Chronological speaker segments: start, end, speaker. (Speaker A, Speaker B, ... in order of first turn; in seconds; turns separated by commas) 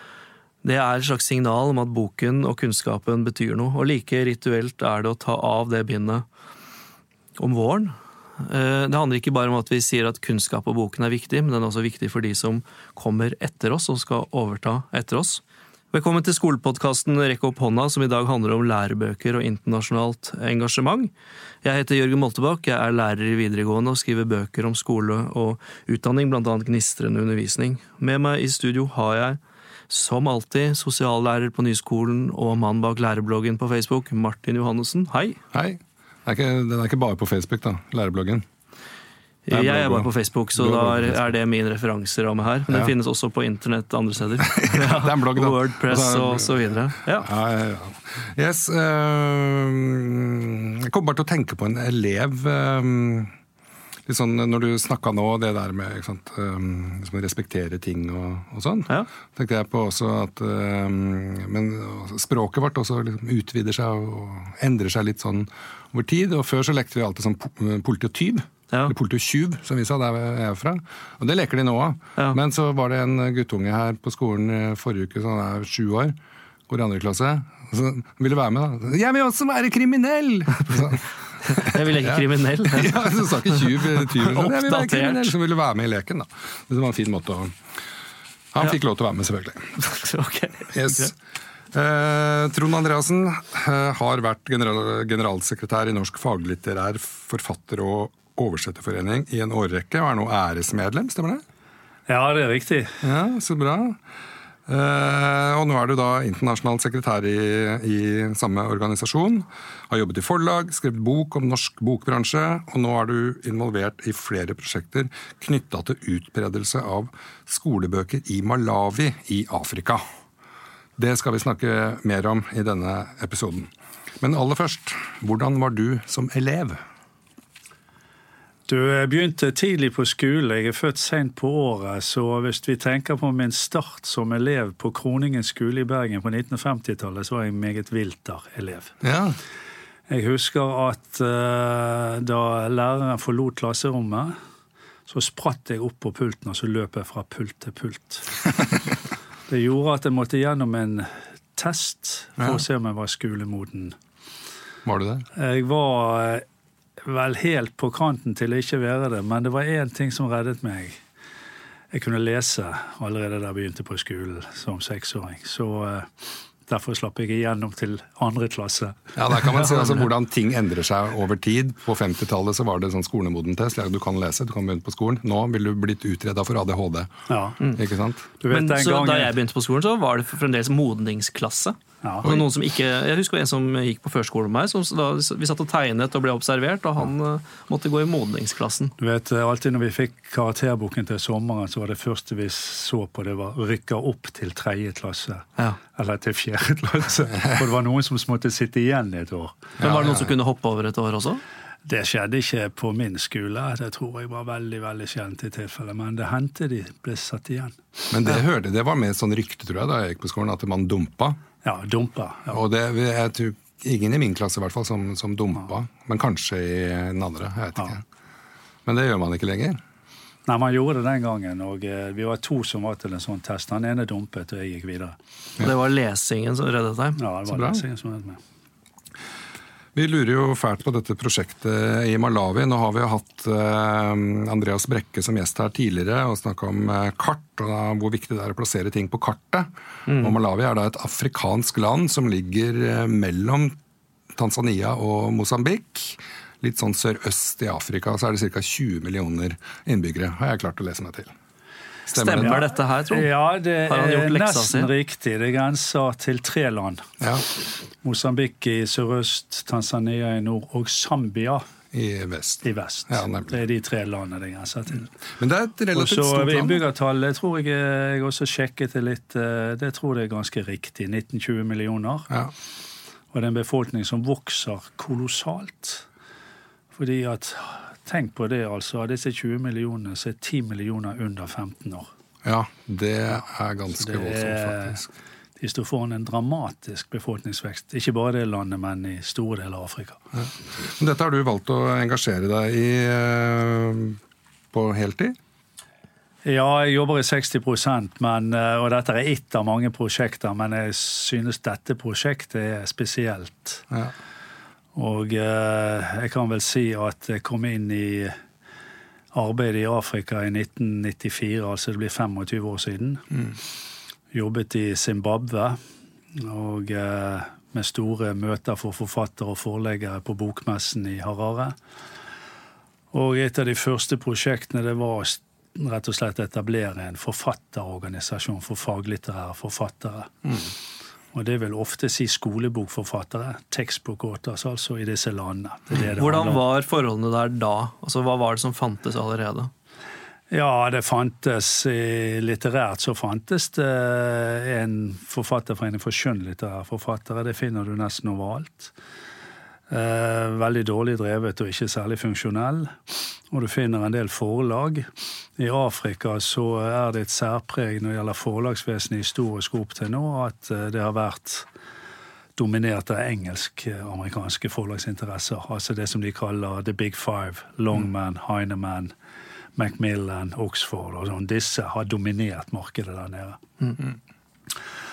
Speaker A: 0.6-6.2, Speaker A: 7.4-21.1, Speaker A: 21.6-35.4, Speaker B: 35.5-38.5, Speaker A: 39.5-47.3, Speaker B: 39.5-41.3, Speaker B: 42.7-42.9, Speaker B: 44.4-53.3, Speaker B: 54.1-76.2, Speaker B: 76.7-87.6, Speaker A: 81.5-85.3, Speaker B: 88.5-89.8, Speaker A: 89.8-91.1, Speaker B: 90.7-91.2, Speaker B: 91.7-101.4, Speaker C: 102.1-103.0, Speaker B: 103.0-104.0, Speaker B: 104.7-120.0, Speaker B: 121.0-123.7, Speaker B: 124.2-126.8, Speaker C: 128.7-138.9, Speaker B: 139.0-139.4, Speaker C: 140.1-144.4, Speaker C: 145.1-148.3, Speaker C: 149.5-154.0, Speaker B: 154.8-155.3, Speaker C: 155.3-156.4, Speaker C: 157.0-161.0, Speaker C: 161.9-170.0, Speaker B: 169.2-177.1, Speaker C: 177.3-177.6, Speaker B: 177.7-178.3, Speaker C: 178.4-179.3, Speaker A: 178.5-188.9, Speaker C: 182.0-182.3, Speaker C: 189.0-199.8, Speaker B: 199.8-200.3, Speaker A: 199.8-201.4, Speaker C: 201.8-208.1, Speaker B: 208.1-211.4, Speaker C: 211.6-212.6, Speaker B: 212.5-218.0, Speaker B: 218.8-219.8, Speaker C: 220.5-225.2, Speaker A: 225.6-227.2, Speaker C: 227.2-228.4, Speaker B: 227.5-227.8, Speaker B: 229.9-243.8, Speaker A: 240.1-240.3, Speaker B: 244.3-251.3, Speaker B: 252.1-252.6, Speaker A: 252.1-253.3, Speaker C: 252.4-257.1, Speaker A: 253.9-254.9, Speaker B: 257.2-257.4, Speaker C: 258.0-261.6, Speaker B: 261.9-263.5, Speaker C: 262.6-265.1, Speaker B: 265.4-266.8, Speaker C: 265.9-272.3, Speaker C: 273.3-276.1, Speaker C: 276.9-282.1, Speaker B: 282.4-285.1, Speaker C: 283.9-285.0, Speaker C: 285.6-290.2, Speaker B: 290.4-294.2, Speaker B: 294.7-295.4, Speaker C: 296.4-303.9, Speaker C: 304.9-308.4, Speaker C: 309.3-313.2, Speaker C: 314.3-315.8, Speaker C: 316.3-321.8, Speaker C: 323.1-330.4, Speaker C: 331.3-336.6, Speaker A: 336.2-339.7, Speaker C: 340.5-348.9, Speaker C: 349.9-361.7, Speaker C: 362.6-369.1, Speaker C: 369.8-373.6